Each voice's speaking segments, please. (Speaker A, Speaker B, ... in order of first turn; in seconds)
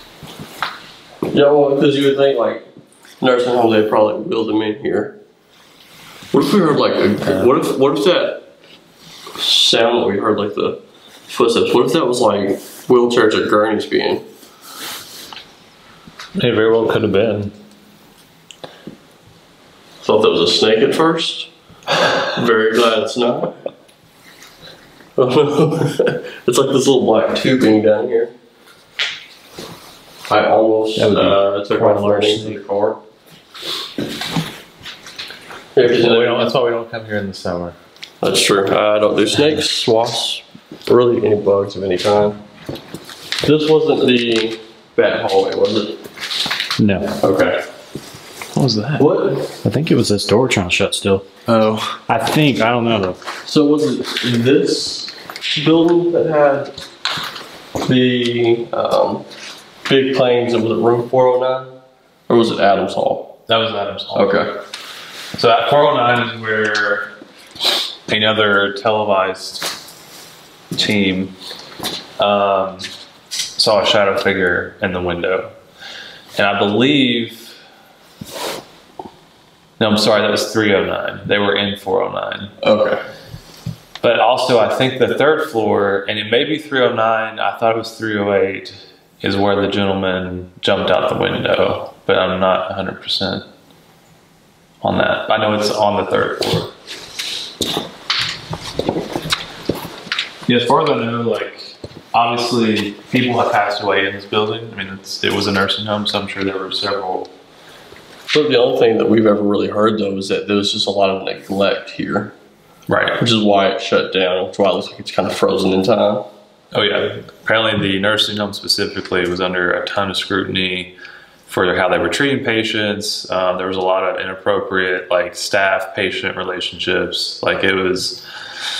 Speaker A: 1.3-2.6, 3.2-5.2, 6.3-8.5, 9.4-14.2, 20.0-21.5, 22.3-23.6, 25.1-28.3, 30.3-33.0, 35.7-36.5, 38.2-42.4, 43.4-46.0, 47.2-47.6, 49.0-49.5, 53.4-56.7, 57.8-59.2, 59.9-61.8, 62.3-63.4, 64.1-64.6, 82.6-83.0, 108.3-112.3, 113.2-116.2
Speaker B: 7.2-7.5, 16.3-17.5, 30.9-32.6, 35.8-37.8, 48.5-49.1, 63.5-64.4, 65.3-67.1, 68.1-69.7, 70.7-71.3, 72.2-72.9, 73.5-75.5, 76.3-77.5, 79.8-82.5, 84.0-93.5, 94.8-96.7, 100.5-107.3, 112.9-113.2, 116.7-128.2
Speaker C: 46.8-47.2, 49.6-53.2